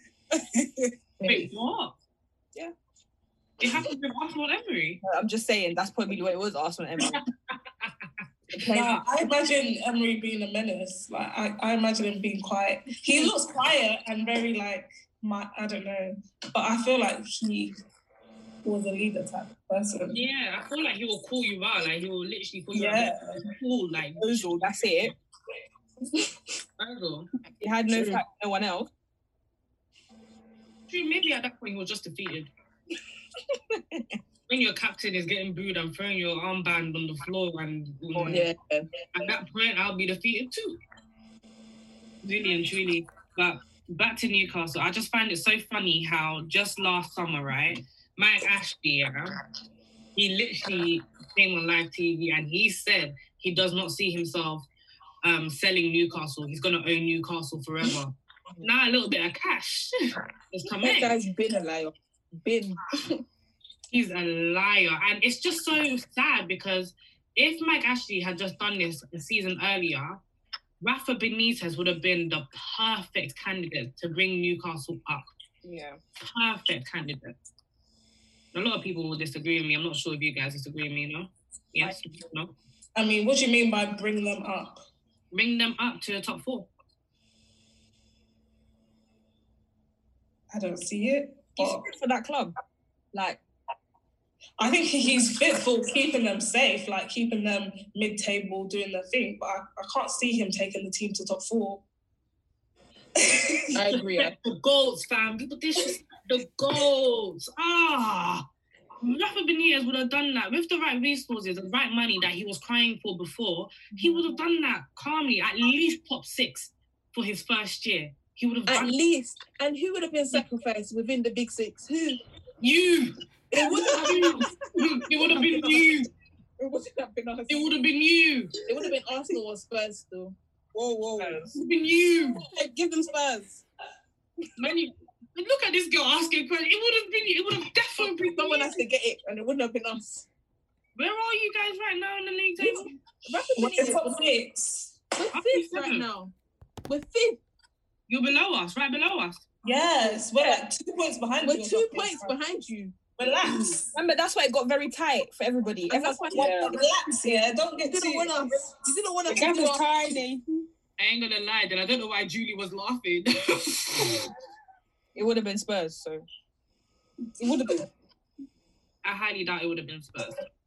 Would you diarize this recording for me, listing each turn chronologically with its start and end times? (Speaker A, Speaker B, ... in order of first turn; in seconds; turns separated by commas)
Speaker A: 0.4-0.9, Speaker B: 1.2-1.5, Speaker C: 1.2-1.9, Speaker C: 3.6-5.0, Speaker D: 5.0-7.2, Speaker E: 8.6-17.8, Speaker D: 8.7-9.0, Speaker E: 18.6-20.2, Speaker C: 20.1-24.3, Speaker E: 22.7-23.4, Speaker D: 24.2-25.1, Speaker C: 26.8-27.3, Speaker D: 27.6-28.9, Speaker C: 30.9-32.5, Speaker D: 33.7-34.0, Speaker C: 34.5-38.5, Speaker D: 38.1-38.5, Speaker B: 38.3-38.9, Speaker C: 39.1-40.8, Speaker C: 42.2-49.4, Speaker C: 50.1-54.7, Speaker C: 55.2-59.9, Speaker C: 60.5-61.2, Speaker B: 60.8-63.2, Speaker C: 63.9-70.2, Speaker C: 70.8-75.2, Speaker D: 75.6-76.0, Speaker C: 76.2-77.3, Speaker C: 78.5-82.5, Speaker E: 82.9-84.8, Speaker C: 85.3-86.7, Speaker E: 90.5-91.9, Speaker D: 91.6-92.5, Speaker D: 93.1-93.4, Speaker E: 94.6-101.8, Speaker E: 103.2-103.7, Speaker B: 103.7-104.3, Speaker C: 103.8-108.4, Speaker C: 109.0-118.9, Speaker B: 118.7-122.2, Speaker C: 122.6-123.1, Speaker B: 123.5-124.4, Speaker C: 123.9-126.1, Speaker B: 125.3-125.6, Speaker B: 126.6-127.7, Speaker C: 127.5-128.5, Speaker B: 128.7-130.3, Speaker A: 130.7-131.6, Speaker D: 131.2-131.5, Speaker C: 131.5-132.4, Speaker A: 132.5-133.6, Speaker C: 134.6-138.8, Speaker B: 138.0-140.3, Speaker C: 140.9-142.9, Speaker B: 143.2-144.2, Speaker E: 143.5-144.9, Speaker B: 145.1-146.3, Speaker C: 145.3-146.1, Speaker B: 146.9-147.4, Speaker C: 148.1-149.4, Speaker E: 149.6-152.3, Speaker D: 150.3-150.6, Speaker B: 151.4-152.9, Speaker E: 153.2-153.9, Speaker A: 153.5-153.8, Speaker D: 153.9-156.6, Speaker B: 155.9-156.8, Speaker A: 156.3-156.7, Speaker E: 156.4-158.5, Speaker B: 157.8-159.8, Speaker A: 159.3-160.6, Speaker C: 161.0-164.3, Speaker D: 165.1-166.2, Speaker A: 167.4-167.9, Speaker C: 169.0-170.4